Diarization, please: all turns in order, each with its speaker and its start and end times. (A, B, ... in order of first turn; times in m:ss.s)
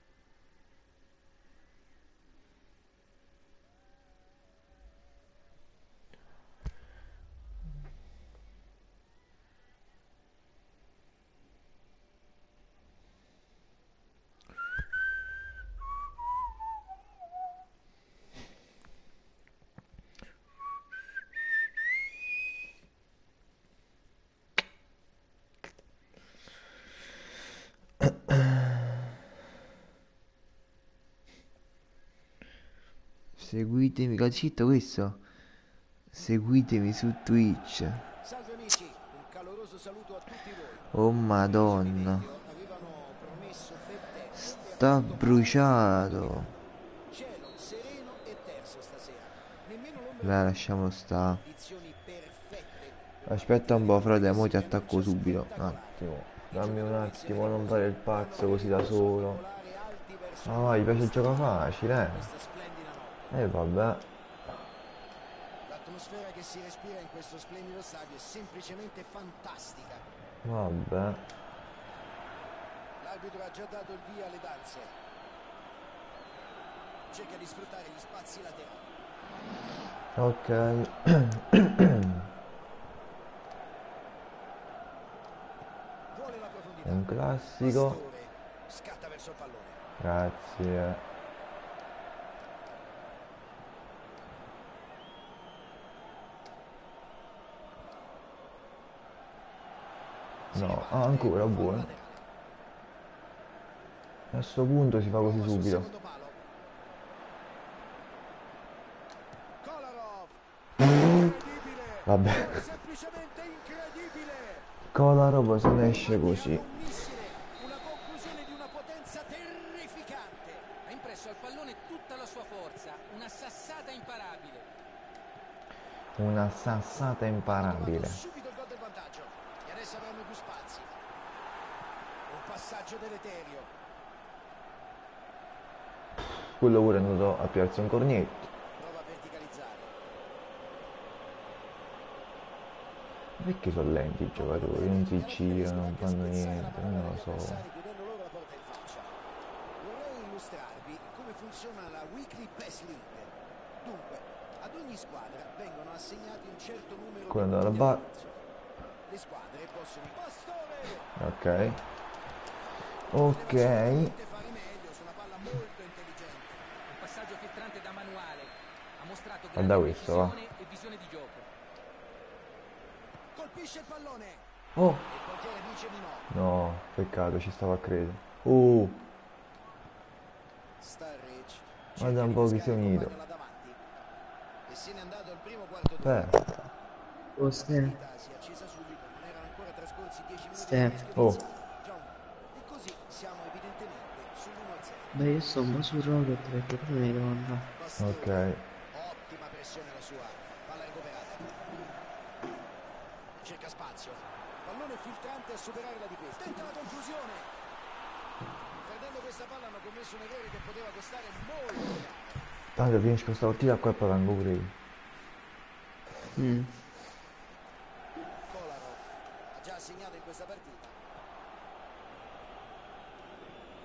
0:33.4-0:35.2 A
0:36.1-0:38.0 A
0:38.2-0:40.9 B
0:40.9-0:42.3 A
0:41.4-0:46.5 B
0:44.3-0:46.5 A
0:47.1-0:50.5 B
0:50.2-0:51.4 A
0:51.2-1:03.3 B
0:53.3-0:59.4 A
1:00.4-1:02.3 A
1:03.3-1:04.1 A
1:05.7-1:10.0 B
1:10.4-1:11.2 A
1:13.0-1:14.9 B
1:17.1-1:18.8 B
1:20.2-1:22.2 A
1:26.1-1:27.1 B
1:26.8-1:28.0 A
1:27.6-1:29.8 B
1:30.0-1:31.0 A
1:40.5-1:42.3 B
1:40.5-1:41.9 A
1:44.3-1:45.9 A
1:45.2-1:46.4 B
1:49.6-1:54.7 B
1:52.1-1:52.7 A
1:54.9-1:56.7 A
1:55.8-2:00.7 B
2:00.8-2:04.7 C
2:06.2-2:08.2 A
2:07.5-2:10.9 B
2:12.3-2:13.7 B
2:16.6-2:18.5 A
2:18.8-2:19.9 B
2:23.4-2:27.7 A
2:24.3-2:29.2 B
2:29.8-2:33.3 B
2:33.8-2:38.4 B
2:37.3-2:38.0 A
2:39.1-2:41.1 B
2:41.2-2:41.8 A
2:43.1-2:44.2 A
2:43.3-2:46.6 B
2:46.9-2:51.5 C
2:49.6-2:50.4 A
2:53.3-2:54.4 B
2:54.8-2:55.1 A
2:55.1-2:56.3 B
2:56.3-2:59.0 A
3:00.8-3:03.8 B
3:02.0-3:03.2 A
3:04.7-3:06.4 B
3:06.0-3:06.4 A
3:07.4-3:08.0 D
3:07.5-3:15.2 B
3:10.5-3:11.0 D
3:11.2-3:11.4 A
3:15.1-3:17.7 D
3:17.8-3:21.5 B
3:18.0-3:18.6 A
3:23.4-3:27.5 B
3:28.8-3:32.4 B
3:32.8-3:34.8 A
3:36.4-3:36.7 A
3:38.5-3:41.0 B